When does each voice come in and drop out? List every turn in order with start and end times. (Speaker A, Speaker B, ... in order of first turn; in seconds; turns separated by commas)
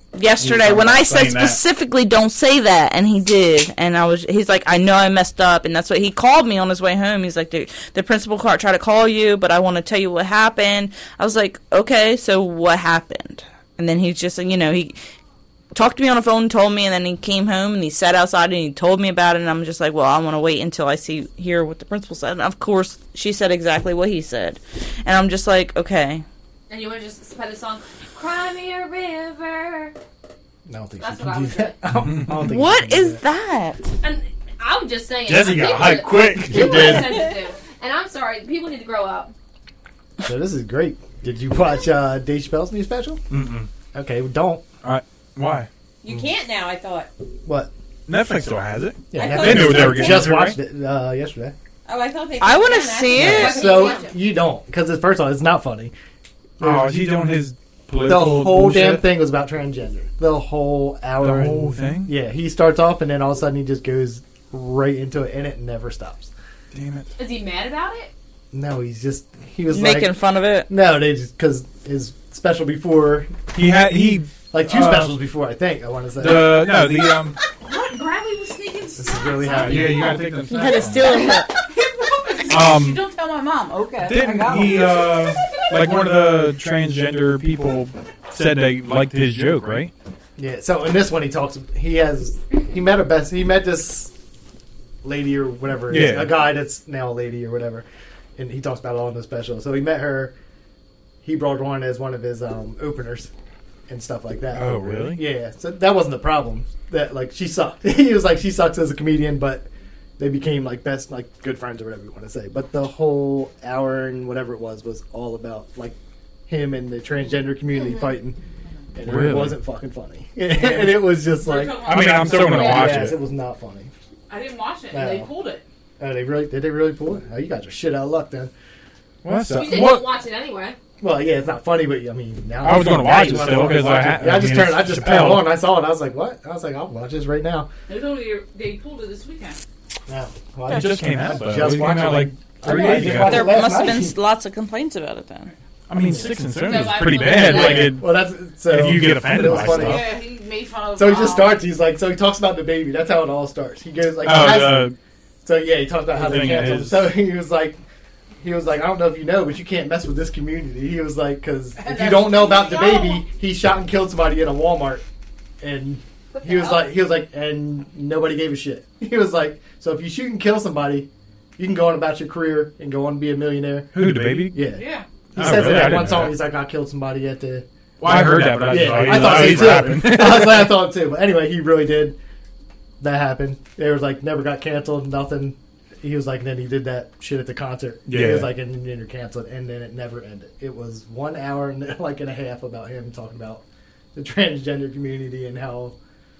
Speaker A: 0.1-15.0, Speaker B: 0.4-1.6, Speaker A: 15.7-26.2, Speaker C: 26.7-29.9, Speaker D: 30.6-33.2, Speaker C: 31.0-31.8, Speaker B: 32.0-32.4, Speaker A: 32.4-33.9, Speaker C: 34.0-39.3, Speaker B: 35.2-37.1, Speaker D: 36.4-37.2, Speaker D: 40.2-43.2, Speaker B: 43.3-43.7, Speaker D: 43.9-44.6, Speaker B: 44.8-45.7, Speaker E: 46.0-47.1, Speaker D: 47.4-47.7, Speaker B: 48.1-50.6, Speaker D: 49.1-51.5, Speaker E: 49.1-50.4, Speaker E: 51.9-54.1, Speaker A: 52.4-53.8, Speaker D: 53.1-55.9, Speaker C: 53.4-54.1, Speaker D: 56.6-57.0, Speaker B: 56.6-59.0, Speaker D: 58.0-66.3, Speaker B: 61.2-62.1, Speaker B: 66.7-67.1, Speaker C: 67.2-68.1, Speaker D: 68.5-73.4, Speaker A: 69.7-70.7, Speaker B: 73.5-75.2, Speaker D: 74.5-76.8, Speaker B: 76.2-77.4, Speaker F: 77.6-80.4, Speaker D: 79.0-80.1, Speaker B: 79.4-81.2, Speaker A: 80.5-81.5, Speaker F: 81.7-84.8, Speaker B: 82.5-83.0, Speaker E: 83.8-85.3, Speaker B: 84.0-89.9, Speaker D: 90.4-94.1, Speaker D: 95.0-97.8, Speaker B: 95.9-96.4, Speaker D: 98.4-100.3, Speaker D: 101.2-103.3, Speaker D: 103.9-109.7, Speaker B: 104.5-105.2, Speaker D: 110.2-116.0, Speaker D: 116.5-118.4, Speaker C: 117.8-118.0, Speaker D: 118.9-123.9, Speaker B: 119.0-119.6, Speaker B: 120.6-121.0, Speaker F: 121.3-123.0, Speaker B: 121.8-123.2, Speaker F: 124.3-125.6, Speaker D: 124.9-125.3, Speaker D: 126.0-128.5, Speaker B: 129.2-130.1, Speaker C: 129.5-130.8, Speaker D: 131.0-137.7, Speaker B: 132.6-135.6, Speaker F: 137.9-139.6, Speaker D: 140.1-144.2, Speaker B: 140.7-143.7, Speaker A: 143.0-145.5, Speaker B: 145.9-148.1, Speaker C: 146.6-148.0, Speaker D: 147.3-150.1, Speaker B: 148.7-150.1, Speaker F: 149.4-151.6, Speaker D: 150.9-157.8, Speaker B: 154.2-154.9, Speaker B: 156.1-157.1, Speaker D: 158.4-165.0, Speaker F: 161.8-163.2, Speaker D: 165.6-182.2, Speaker C: 166.3-166.9, Speaker B: 173.9-174.7, Speaker F: 174.7-175.1, Speaker B: 175.3-176.4, Speaker B: 178.0-180.8, Speaker D: 183.0-193.6, Speaker B: 188.1-188.5, Speaker D: 194.1-195.9